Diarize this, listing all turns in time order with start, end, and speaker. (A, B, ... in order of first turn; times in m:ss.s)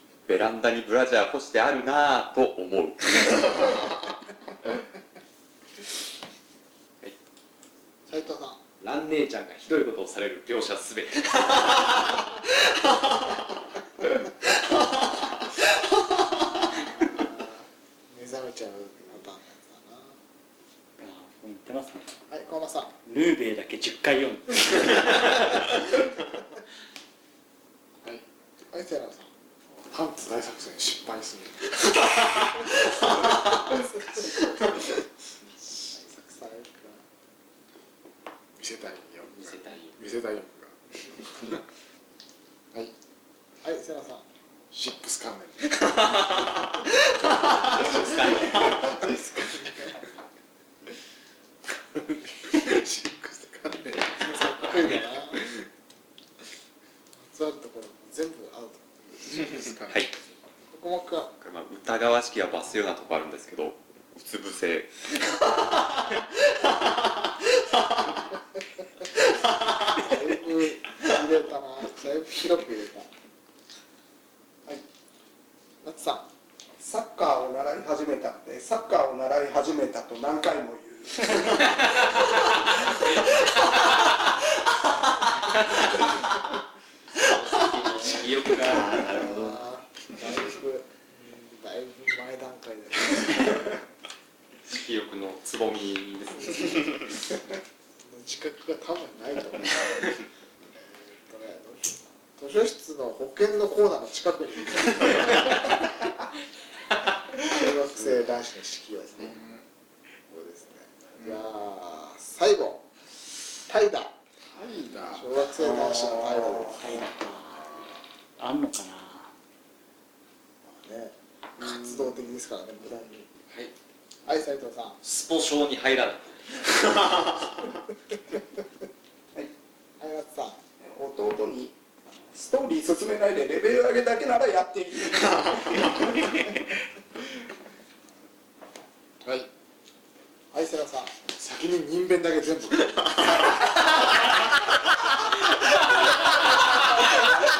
0:00.3-0:04.0 A
0:08.1-0:08.6 B
0:08.8-0:12.2 C
0:16.8-0:20.2 B
0:21.0-0:22.1 D
0:22.3-0:22.9 B
0:23.0-0:25.6 D
0:28.7-0:29.3 B
0:29.8-0:32.0 E
0:33.5-0:34.3 B
0:35.9-0:37.0 B
0:38.6-0:40.7 E
0:39.4-0:39.9 C
0:41.4-0:41.6 E
0:43.6-0:44.2 B
0:44.7-0:46.0 E
0:47.6-0:48.8 C
0:48.8-0:50.0 B
0:51.9-0:54.3 E
0:54.0-0:55.4 B
0:57.2-0:58.8 B
0:59.3-1:00.1 E
1:00.7-1:01.3 B
1:01.4-1:04.9 A
1:10.0-1:13.1 B
1:15.8-1:16.2 B
1:16.8-1:22.0 F
1:27.2-1:29.6 C
1:28.8-1:33.8 B
1:34.6-1:37.1 C
1:38.0-1:40.2 B
1:40.8-1:45.6 B
1:47.4-1:49.4 B
1:49.3-1:49.6 E
1:50.3-1:52.8 B
1:53.7-1:54.1 B
1:54.5-1:56.5 E
1:55.1-1:57.0 B
1:56.8-1:57.7 D
1:58.4-1:59.3 D
2:00.7-2:03.2 B
2:01.6-2:02.1 E
2:04.2-2:05.0 B
2:05.0-2:07.4 C
2:10.0-2:10.6 B
2:10.8-2:11.7 F
2:12.3-2:16.5 F
2:20.5-2:21.1 B
2:21.2-2:23.5 E